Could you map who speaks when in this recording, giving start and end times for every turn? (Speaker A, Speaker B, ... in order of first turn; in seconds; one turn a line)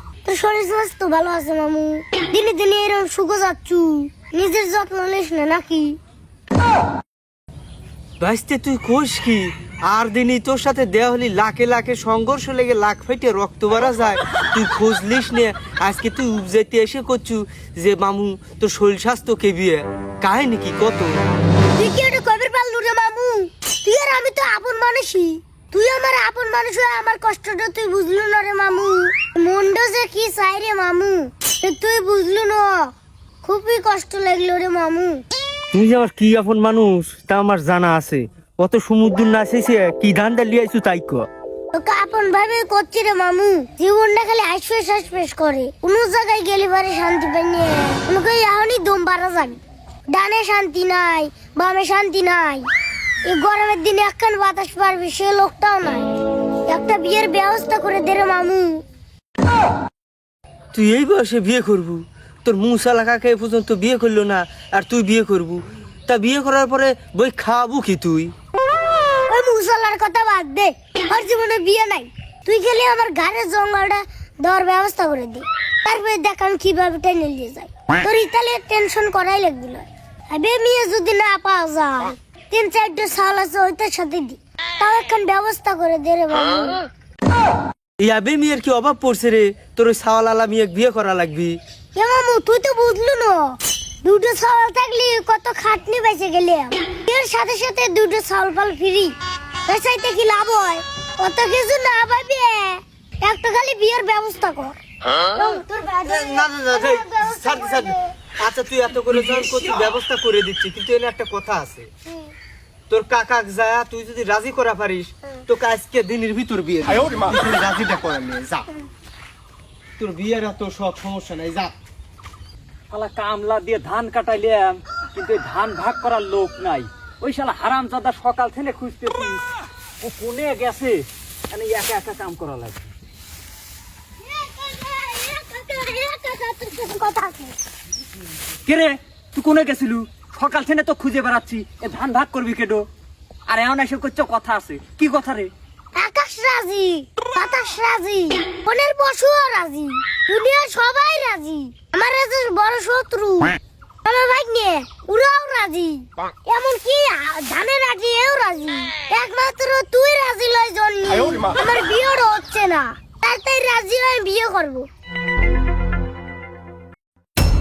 Speaker A: 0.2-6.0
Speaker B: 8.2-21.2
Speaker A: 21.8-35.2
Speaker B: 35.7-41.3
Speaker A: 41.7-49.6
Speaker A: 50.1-52.7
Speaker A: 53.2-58.8
Speaker B: 60.7-68.3
Speaker A: 69.3-86.9
Speaker B: 88.0-91.6
Speaker A: 92.0-99.1
Speaker A: 99.7-108.1
Speaker B: 106.1-111.9
Speaker B: 112.9-118.7
Speaker B: 120.0-121.8
Speaker C: 122.9-129.4
Speaker C: 130.0-132.9
Speaker A: 134.4-137.6
Speaker C: 138.7-142.9
Speaker C: 143.5-145.5
Speaker A: 145.9-164.9